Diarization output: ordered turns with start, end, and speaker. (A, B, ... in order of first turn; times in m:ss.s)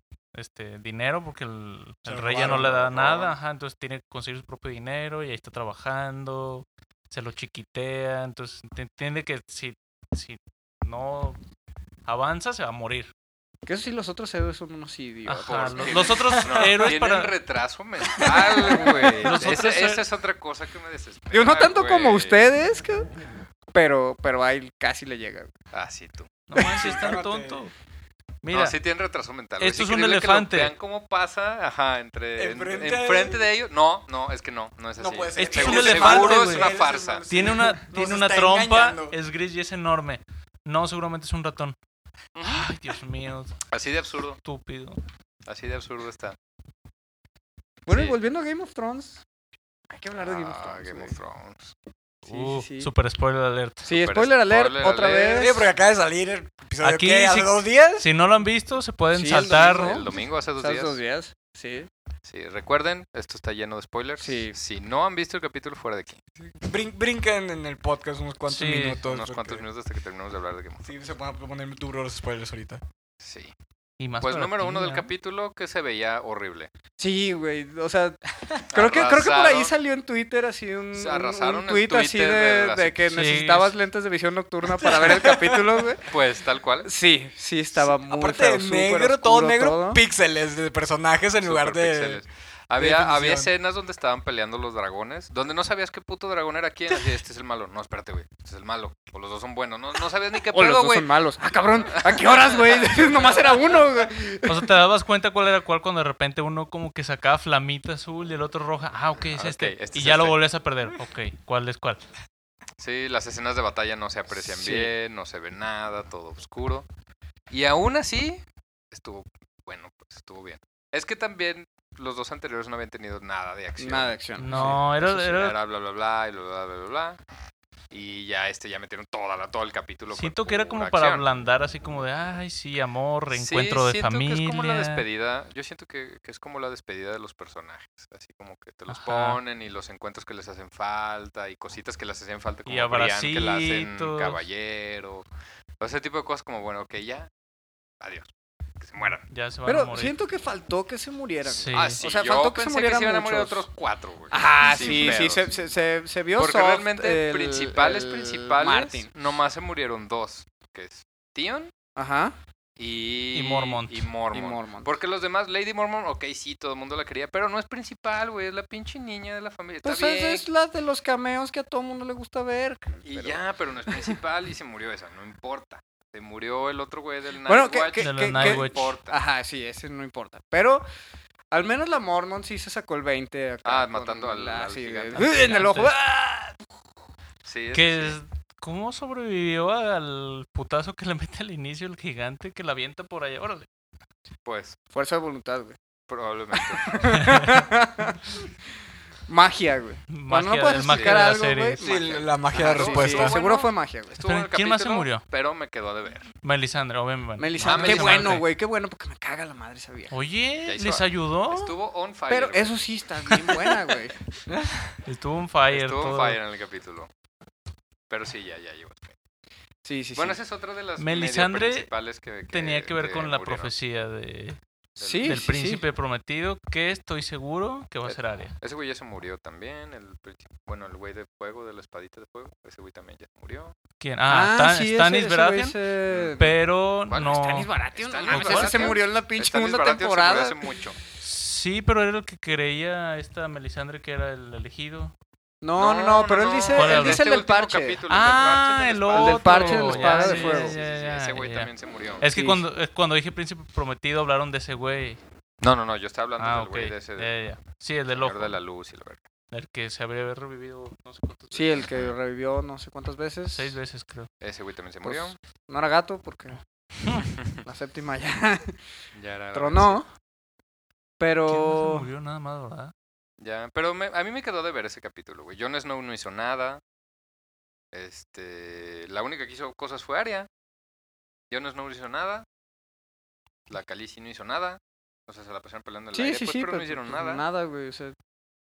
0:00.3-0:11.4 A
0:02.0-0:02.9 B
0:02.3-0:03.3 C
0:12.0-0:13.1 A
0:13.6-0:16.2 D
0:15.2-0:17.3 A
0:15.4-0:22.4 C
0:18.3-0:19.5 D
0:19.2-0:20.0 A
0:21.3-0:23.1 D
0:23.7-0:25.5 D
0:25.7-0:26.3 C
0:26.5-0:27.7 A
0:26.7-0:27.6 B
0:28.4-0:28.8 A
0:28.5-0:37.5 C
0:29.6-0:30.7 A
0:32.4-0:33.4 B
0:35.0-0:39.2 B
0:35.4-0:36.7 A
0:37.3-0:41.8 A
0:42.4-0:42.7 C
0:42.4-0:43.6 A
0:43.7-0:44.4 C
0:44.4-0:45.0 A
0:45.4-0:46.4 C
0:47.9-0:49.2 D
0:47.9-0:48.2 C
0:49.9-0:51.2 D
0:50.2-0:51.7 C
0:52.2-0:53.8 A
0:52.3-0:52.9 D
0:53.8-0:55.6 D
0:53.9-0:55.6 C
0:55.3-0:58.1 B
0:56.8-1:00.0 A
0:59.1-1:01.9 D
0:59.5-1:01.0 C
1:02.2-1:06.2 C
1:04.2-1:04.6 D
1:06.6-1:09.6 B
1:08.5-1:09.0 A
1:09.0-1:10.9 C
1:10.8-1:12.8 B
1:13.2-1:13.5 C
1:14.0-1:15.1 A
1:14.2-1:16.7 C
1:17.0-1:26.1 D
1:18.7-1:19.7 C
1:20.9-1:23.0 C
1:23.1-1:23.7 A
1:24.8-1:25.8 B
1:26.0-1:26.9 C
1:26.8-1:30.0 D
1:27.7-1:32.2 B
1:31.4-1:41.1 C
1:32.8-1:33.5 B
1:40.5-1:44.7 D
1:41.9-1:43.9 C
1:44.4-1:52.0 A
1:49.3-1:50.4 C
1:52.8-1:56.8 C
1:54.4-1:54.9 D
1:57.5-2:07.2 C
2:03.8-2:05.1 D
2:04.4-2:05.6 A
2:07.9-2:11.2 C
2:10.1-2:15.0 A
2:13.3-2:25.2 C
2:18.9-2:19.4 A
2:22.6-2:24.4 A
2:25.8-2:27.3 C
2:28.0-2:28.3 C
2:28.8-2:29.2 C
2:29.0-2:30.1 A
2:29.6-2:33.7 D
2:31.5-2:32.0 A
2:31.7-2:35.4 C
2:34.3-2:39.1 D
2:34.8-2:35.1 A
2:36.4-2:41.7 C
2:42.0-2:42.4 D
2:42.8-2:50.4 C
2:43.3-2:44.1 A
2:44.3-2:44.9 D
2:49.8-2:54.2 D
2:53.0-2:59.2 C
2:57.4-3:00.8 D
2:58.0-2:58.9 A
3:01.5-3:06.6 D
3:03.6-3:05.7 C
3:05.1-3:05.9 A
3:07.4-3:08.2 C
3:07.7-3:13.7 A
3:14.4-3:14.8 C
3:14.9-3:15.8 D
3:16.1-3:17.3 C
3:16.8-3:18.5 D
3:17.1-3:17.6 A
3:19.3-3:24.2 D
3:20.1-3:21.8 A
3:20.8-3:21.3 C
3:21.8-3:23.4 B
3:22.5-3:26.3 C
3:24.2-3:25.2 A
3:26.4-3:28.5 A
3:27.4-3:30.1 D
3:27.6-3:28.4 C
3:30.1-3:31.7 A
3:30.6-3:32.9 C
3:32.3-3:34.2 D
3:33.4-3:33.7 A
3:35.0-3:36.4 A
3:35.7-3:37.1 C
3:38.1-3:39.2 C
3:39.8-3:40.4 D
3:40.1-3:43.7 C
3:41.0-3:41.9 A
3:42.5-3:44.6 A
3:45.0-3:45.4 C
3:45.0-3:45.8 D
3:45.2-3:48.5 A
3:48.0-3:53.7 C
3:54.0-3:55.8 A
3:54.3-3:56.5 D
3:56.1-3:56.3 C
3:56.4-3:57.7 A
3:57.1-4:01.0 C
3:57.2-4:00.6 D
3:58.3-3:59.0 A
4:01.2-4:05.1 A
4:05.6-4:08.0 D
4:05.8-4:12.2 C
4:06.7-4:07.2 A
4:08.1-4:15.2 A
4:09.1-4:10.8 D
4:12.3-4:12.6 D
4:15.6-4:17.4 C
4:16.4-4:18.6 A
4:18.1-4:19.2 C
4:19.5-4:21.9 A
4:21.5-4:23.8 D
4:21.8-4:22.1 C
4:23.5-4:24.3 A
4:24.4-4:25.4 C
4:25.0-4:26.6 D
4:27.6-4:28.8 D
4:29.1-4:30.0 C
4:29.5-4:30.1 D
4:31.2-4:32.1 D
4:31.5-4:32.9 A
4:33.4-4:36.8 C
4:37.9-4:40.5 C
4:41.5-4:42.4 C
4:43.7-4:47.4 C
4:46.1-4:48.1 D